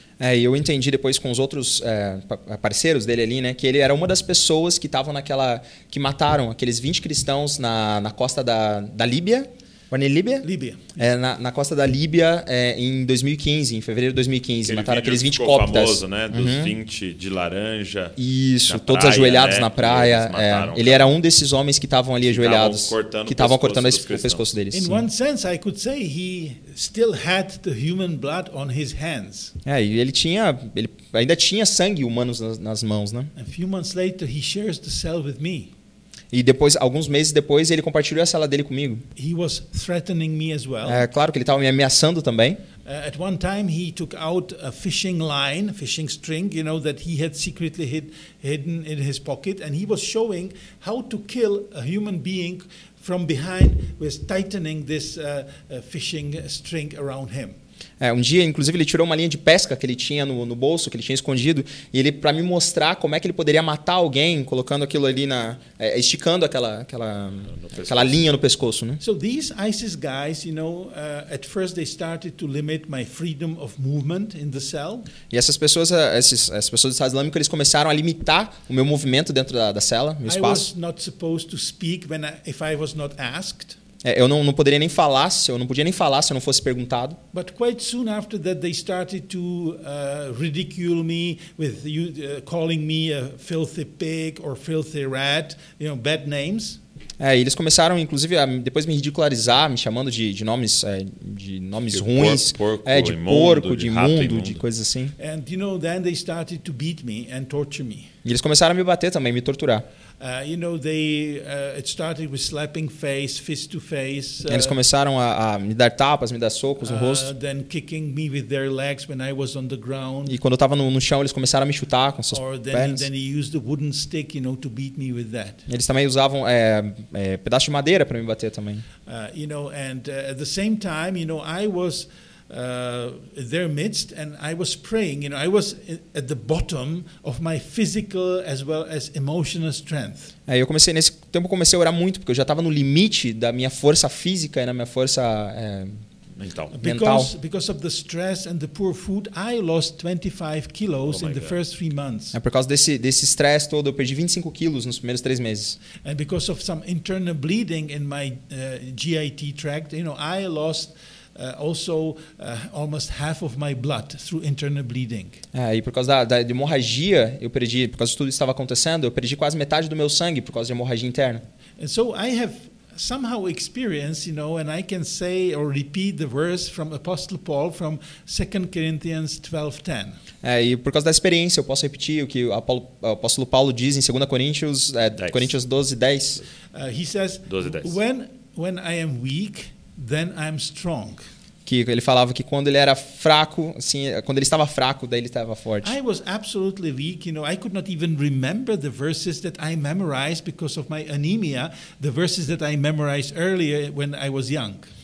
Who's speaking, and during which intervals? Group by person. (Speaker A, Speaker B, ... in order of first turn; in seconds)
Speaker A: 0.2-10.4, 10.9-16.7, 18.2-25.0, 29.6-33.3, 36.3-39.0, 40.8-42.6, 58.0-69.0, 75.3-80.7, 84.0-87.2, 97.2-105.1, 108.2-109.8, 114.5-117.3, 120.3-123.0, 125.7-128.8, 140.5-146.0, 146.8-147.3, 152.3-155.8, 165.5-171.4, 180.4-186.4, 191.7-195.9
Speaker B: 10.4-11.0, 24.7-29.5, 33.4-35.7, 39.1-41.0, 42.8-57.6, 69.0-75.1, 80.2-83.8, 87.3-96.8, 105.2-108.1, 110.2-114.8, 116.8-120.3, 122.3-125.6, 129.1-140.3, 146.7-152.3, 156.0-165.4, 171.8-180.2, 186.7-191.2, 195.8-204.9
Speaker C: 14.7-21.1, 22.2-24.5, 67.5-68.2, 101.9-104.6, 146.4-146.7, 151.1-151.6, 185.2-185.5, 187.5-187.9